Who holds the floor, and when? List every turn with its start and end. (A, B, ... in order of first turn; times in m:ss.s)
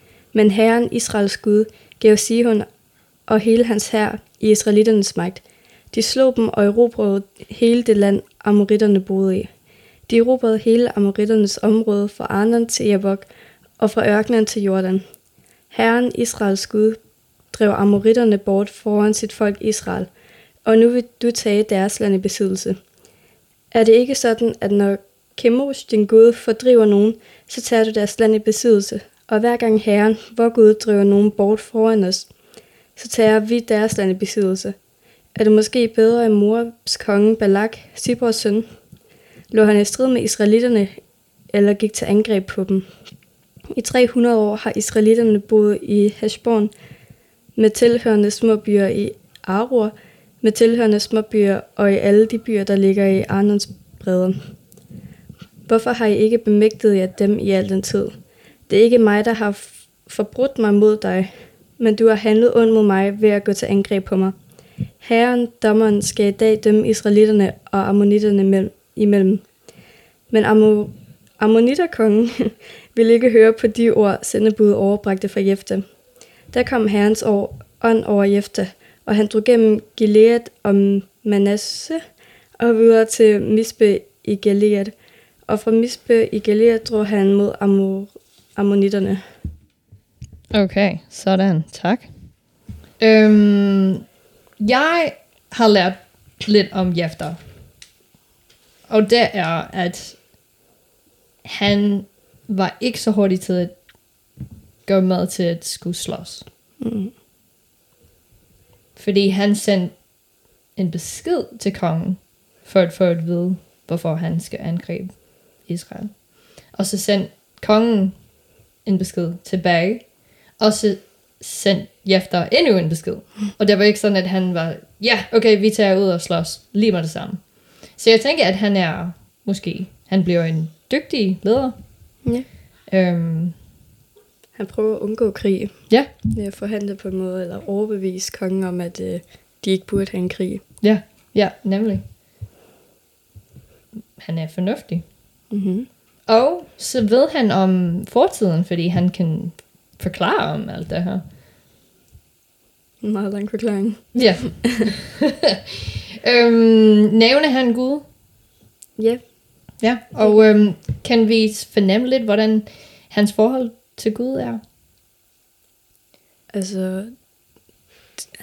0:00.3-0:02.7 A
0:03.2-0:09.5 A
0:10.1-0:15.0 A
0:15.7-0:20.1 A
0:20.6-0:22.8 A
0:23.7-0:32.3 A
0:33.0-0:34.8 A
0:35.3-0:38.7 A
0:39.5-0:42.9 A
0:43.7-0:46.7 A
0:47.5-0:54.5 A
0:55.7-1:04.3 A
1:05.0-1:09.7 A
1:10.3-1:29.3 A
1:30.5-1:32.4 B
1:33.0-1:34.0 B
1:34.6-1:37.4 B
1:38.9-1:40.3 B
1:41.4-1:43.9 B
1:44.8-1:46.4 B
1:46.8-1:47.1 A
1:49.0-2:12.3 B
2:12.2-2:12.5 A
2:12.9-2:13.6 B
2:14.5-2:20.6 A
2:20.8-2:22.0 B
2:24.2-2:25.1 B
2:25.5-2:25.9 A
2:26.3-2:31.2 B
2:33.0-2:34.8 A
2:34.1-2:35.5 B
2:36.2-2:38.0 B
2:39.0-2:40.5 A
2:39.8-2:44.6 B
2:46.5-2:47.4 A